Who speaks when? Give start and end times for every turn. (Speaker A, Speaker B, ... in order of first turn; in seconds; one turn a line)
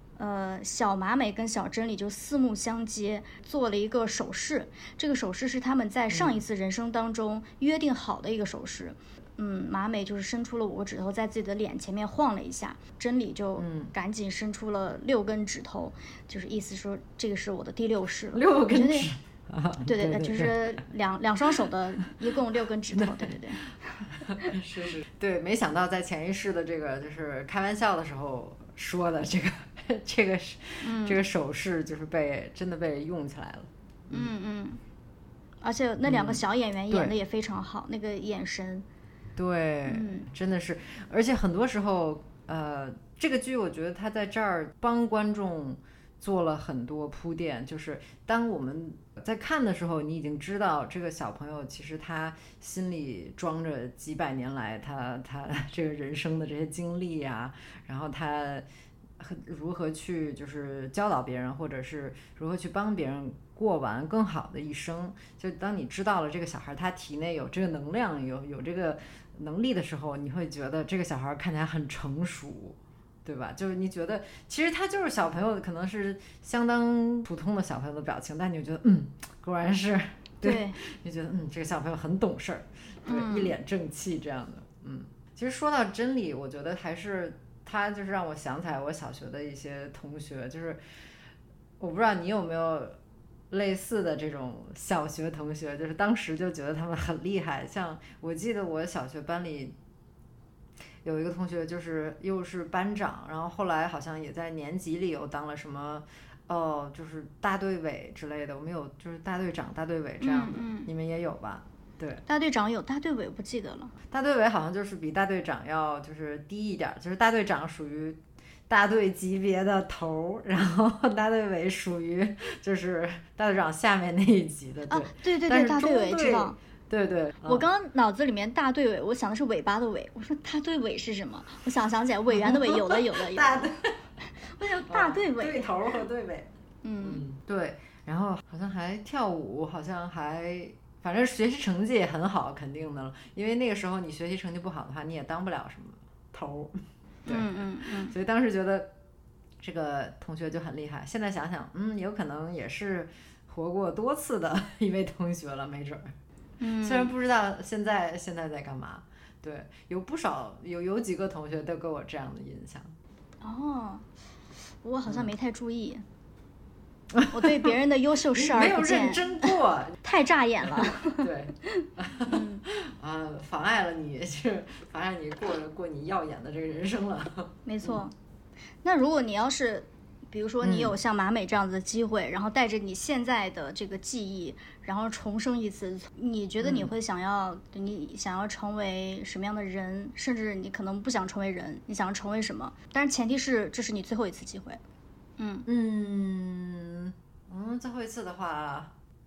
Speaker A: 0.2-19.1
Speaker B: 6.1-6.4
Speaker B: 13.6-13.9
Speaker B: 18.3-20.6
Speaker A: 19.9-24.6
Speaker B: 22.9-23.4
Speaker B: 24.0-34.3
Speaker A: 30.8-31.2
Speaker A: 34.1-34.8
Speaker A: 35.6-38.9
Speaker B: 36.0-37.1
Speaker B: 39.4-58.7
Speaker A: 39.9-40.3
Speaker B: 59.2-90.8
Speaker A: 80.4-80.8
Speaker A: 83.1-83.6
Speaker B: 91.8-93.0
Speaker B: 93.5-99.8
Speaker B: 101.0-112.2
Speaker A: 110.2-110.9
Speaker A: 112.3-113.9
Speaker B: 114.1-127.7
Speaker A: 124.9-126.6
Speaker A: 127.5-133.7
Speaker B: 132.3-133.9
Speaker A: 134.3-135.7
Speaker B: 134.9-136.5
Speaker A: 136.8-137.2
Speaker B: 137.0-148.9
Speaker A: 147.3-148.1
Speaker B: 149.6-156.1
Speaker A: 156.6-157.1
Speaker B: 156.8-163.0
Speaker A: 163.4-164.1
Speaker A: 164.8-166.1
Speaker B: 167.1-167.8
Speaker A: 167.3-172.7
Speaker B: 168.3-170.0
Speaker B: 170.6-178.0
Speaker A: 177.7-178.1
Speaker A: 178.8-194.8
Speaker B: 180.6-181.0
Speaker B: 186.6-186.9
Speaker A: 195.4-195.7
Speaker B: 195.7-198.9